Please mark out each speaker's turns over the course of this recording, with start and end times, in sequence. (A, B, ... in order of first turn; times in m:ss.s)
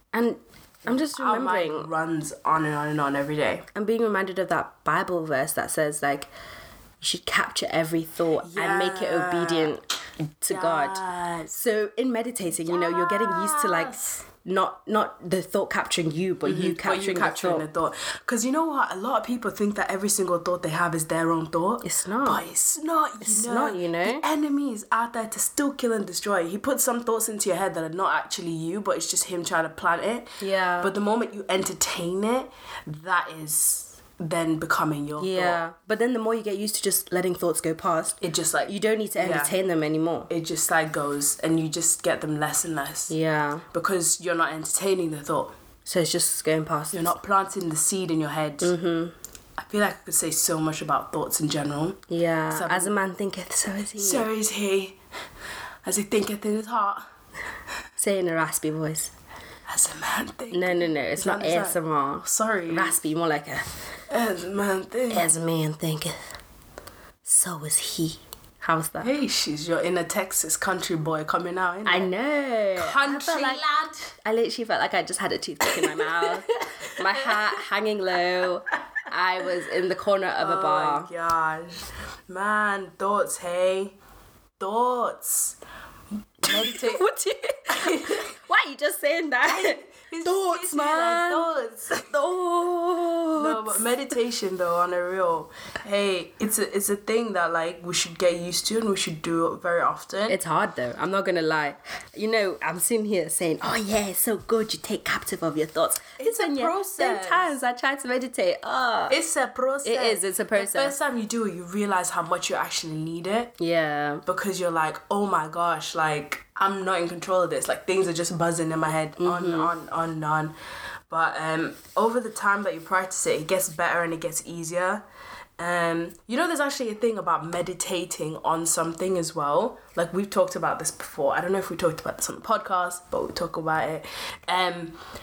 0:00.1-0:01.9 A
0:00.8-0:03.7 B
0:03.8-0:06.3 A
0:07.0-0:09.8 A
0:08.4-0:09.7 B
0:10.4-0:13.9 A
0:10.5-0:11.6 B
0:12.6-0:14.2 B
0:14.4-0:17.7 A
0:16.4-0:35.6 B
0:21.8-0:22.4 A
0:23.2-0:24.2 A
0:30.4-0:30.9 A
0:35.2-0:40.3 A
0:38.2-0:39.5 B
0:40.3-0:43.2 B
0:43.1-0:43.7 A
0:43.7-0:45.5 B
0:45.9-0:47.2 A
0:46.9-0:48.7 B
0:48.6-0:49.2 A
0:49.6-0:52.0 B
0:52.1-0:54.3 A
0:52.5-0:52.9 B
0:54.0-0:55.0 B
0:55.8-0:57.0 B
0:58.0-0:59.1 A
0:59.7-1:03.0 B
1:00.5-1:03.7 A
1:04.1-1:05.3 B
1:05.1-1:06.2 A
1:07.2-1:09.1 A
1:09.0-1:12.1 B
1:11.8-1:13.7 A
1:12.8-1:14.1 B
1:14.2-1:21.1 A
1:15.6-1:16.6 B
1:17.3-1:17.6 B
1:20.4-1:24.0 B
1:24.6-1:25.6 B
1:26.4-1:27.0 B
1:26.4-1:33.9 A
1:27.7-1:28.2 B
1:29.4-1:32.1 B
1:33.4-1:40.4 B
1:40.3-1:49.2 A
1:46.2-1:47.6 B
1:49.1-1:53.5 B
1:49.8-1:51.0 A
1:53.6-1:54.2 A
1:54.2-2:00.5 B
1:59.2-1:59.7 A
2:01.1-2:05.0 B
2:05.6-2:15.0 B